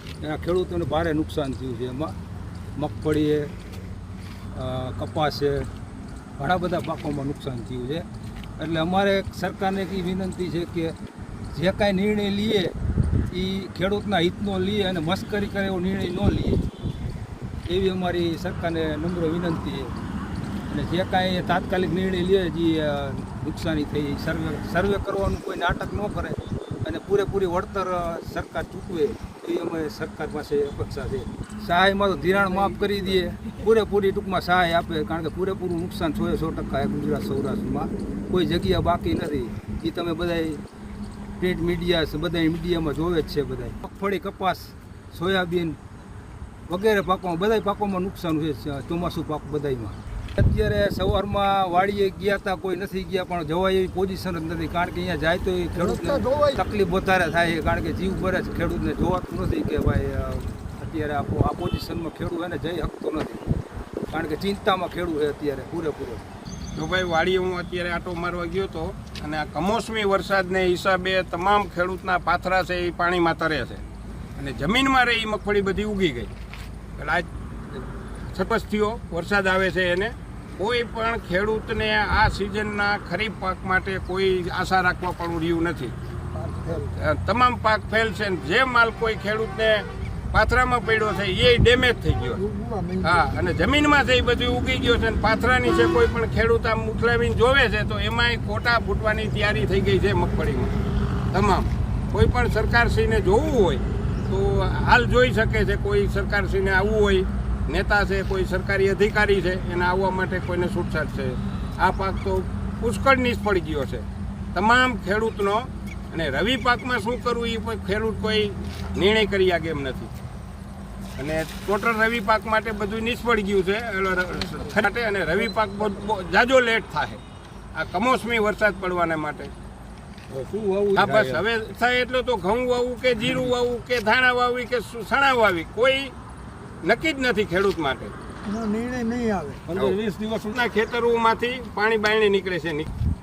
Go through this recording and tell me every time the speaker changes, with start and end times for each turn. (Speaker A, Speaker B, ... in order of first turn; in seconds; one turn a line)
Speaker A: 0.2-2.2
Speaker A: 2.8-3.5
Speaker A: 4.5-5.7
Speaker A: 6.4-8.1
Speaker A: 8.6-10.9
Speaker A: 11.5-12.7
Speaker A: 13.3-16.6
Speaker A: 17.7-20.0
Speaker A: 20.7-40.6
Speaker B: 32.9-33.2
Speaker A: 41.4-45.8
Speaker A: 46.7-63.5
Speaker B: 55.9-56.6
Speaker A: 64.1-66.3
Speaker C: 66.8-73.8
Speaker C: 74.4-76.3
Speaker C: 77.0-85.9
Speaker B: 86.3-86.9
Speaker C: 86.9-100.8
Speaker B: 92.4-93.1
Speaker C: 101.3-120.1
Speaker C: 121.2-127.2
Speaker C: 127.8-129.5
Speaker A: 130.3-131.4
Speaker C: 130.9-136.1
Speaker C: 136.8-138.2
Speaker B: 138.5-139.7
Speaker A: 139.7-140.2
Speaker C: 139.7-142.9